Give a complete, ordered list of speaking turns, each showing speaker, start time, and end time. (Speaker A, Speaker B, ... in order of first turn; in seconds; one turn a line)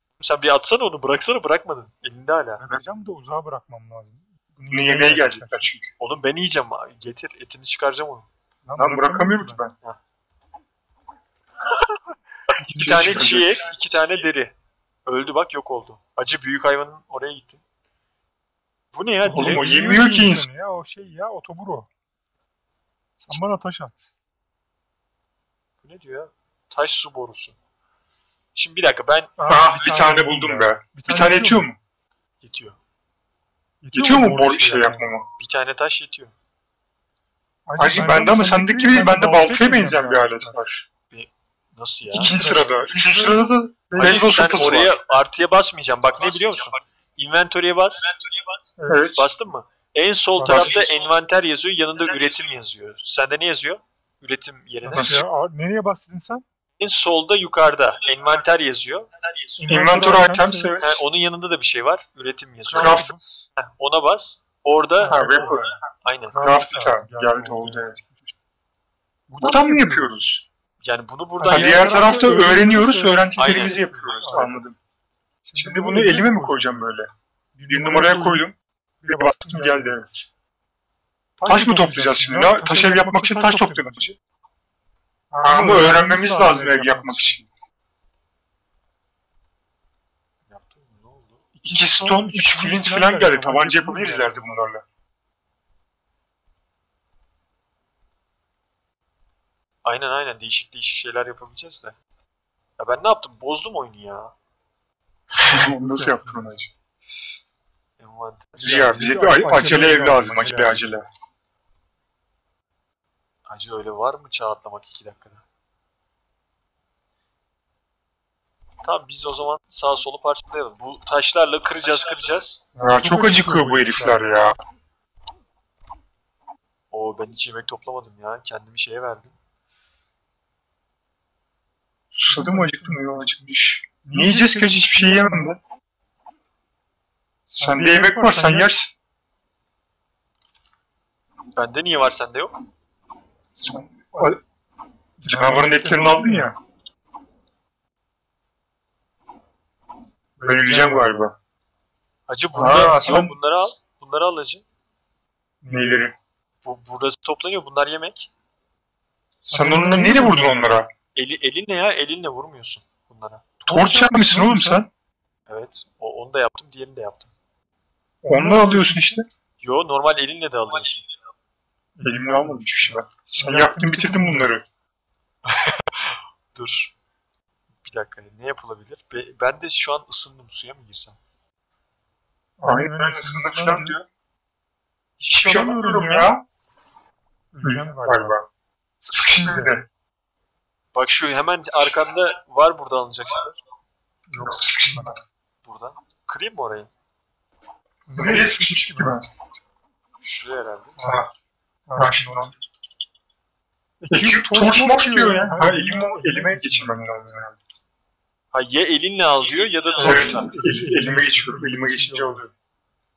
Speaker A: 0.2-2.6
Speaker B: 2.6-5.7
Speaker C: 4.7-5.9
Speaker A: 6.0-8.3
Speaker B: 8.6-9.6
Speaker C: 8.8-9.7
Speaker C: 12.6-13.6
Speaker A: 12.6-14.5
Speaker B: 12.8-13.2
Speaker A: 15.1-17.6
Speaker A: 18.9-19.7
Speaker B: 19.2-21.9
Speaker C: 19.3-20.5
Speaker B: 23.2-24.1
Speaker A: 25.8-27.6
Speaker A: 28.6-29.3
Speaker B: 29.4-31.7
Speaker C: 29.5-31.8
Speaker A: 32.4-32.8
Speaker B: 33.8-35.1
Speaker C: 33.9-35.3
Speaker A: 35.4-36.3
Speaker B: 37.7-40.6
Speaker C: 37.8-40.8
Speaker A: 41.1-42.3
Speaker B: 42.1-44.8
Speaker C: 42.1-45.0
Speaker A: 44.0-48.1
Speaker B: 48.8-49.1
Speaker C: 48.9-49.3
Speaker A: 49.2-55.2
Speaker B: 50.4-50.8
Speaker C: 50.4-50.8
Speaker B: 54.8-56.5
Speaker C: 54.9-55.2
Speaker A: 56.8-59.1
Speaker B: 59.6-60.8
Speaker C: 59.6-61.0
Speaker A: 60.8-65.2
Speaker B: 62.6-63.5
Speaker C: 62.8-63.1
Speaker B: 65.0-65.7
Speaker C: 65.1-65.7
Speaker A: 66.0-66.4
Speaker B: 66.3-68.0
Speaker C: 66.4-68.0
Speaker B: 69.3-70.1
Speaker C: 69.4-70.4
Speaker A: 70.8-72.1
Speaker B: 71.4-74.6
Speaker C: 71.5-74.8
Speaker A: 73.4-74.3
Speaker B: 75.5-76.7
Speaker C: 75.6-77.1
Speaker B: 77.5-78.4
Speaker C: 77.7-78.5
Speaker B: 79.0-80.0
Speaker C: 79.1-80.3
Speaker B: 81.4-84.1
Speaker C: 81.5-84.2
Speaker B: 85.3-87.4
Speaker C: 85.4-87.5
Speaker A: 90.5-91.5
Speaker B: 91.6-94.4
Speaker C: 91.7-94.8
Speaker A: 99.8-102.0
Speaker A: 102.8-104.3
Speaker C: 105.4-106.7
Speaker B: 105.4-106.6
Speaker A: 108.0-109.0
Speaker B: 108.6-110.8
Speaker C: 108.6-111.1
Speaker A: 113.5-115.4
Speaker A: 118.8-122.6
Speaker C: 122.8-124.6
Speaker B: 122.9-124.6
Speaker A: 126.9-129.3
Speaker C: 132.1-135.6
Speaker B: 132.2-133.2
Speaker B: 134.0-135.6
Speaker B: 137.5-138.7
Speaker C: 137.6-138.9
Speaker A: 141.6-142.5
Speaker C: 143.6-144.4
Speaker B: 143.9-144.4
Speaker B: 145.2-146.5
Speaker C: 145.2-146.6
Speaker B: 150.4-151.2
Speaker C: 150.4-151.3
Speaker A: 152.3-154.6
Speaker C: 152.5-153.3
Speaker B: 152.8-153.1
Speaker B: 155.6-156.0
Speaker C: 155.7-156.2
Speaker A: 156.6-158.3
Speaker B: 159.4-160.8
Speaker C: 159.5-160.9
Speaker A: 161.2-163.4
Speaker B: 163.6-164.8
Speaker C: 163.7-164.9
Speaker A: 165.5-167.3
Speaker C: 168.2-169.3
Speaker B: 168.3-169.2
Speaker A: 169.6-171.1
Speaker B: 172.0-174.5
Speaker C: 172.0-174.7
Speaker A: 175.4-176.9
Speaker A: 177.8-181.2
Speaker B: 182.6-184.0
Speaker C: 182.6-184.0
Speaker B: 185.2-186.4
Speaker C: 185.3-186.4
Speaker B: 187.5-188.4
Speaker C: 187.6-188.4
Speaker B: 189.0-189.8
Speaker C: 189.1-189.9
Speaker A: 190.9-193.6
Speaker B: 194.3-195.2
Speaker C: 194.4-195.2
Speaker A: 195.6-196.9
Speaker B: 198.1-199.3
Speaker C: 198.2-199.3
Speaker A: 200.2-201.0
Speaker B: 201.0-201.2
Speaker C: 201.0-201.3
Speaker B: 201.9-202.5
Speaker C: 202.0-202.5
Speaker B: 204.0-206.9
Speaker C: 204.1-207.6
Speaker A: 208.5-210.5
Speaker B: 210.0-212.4
Speaker C: 210.0-212.5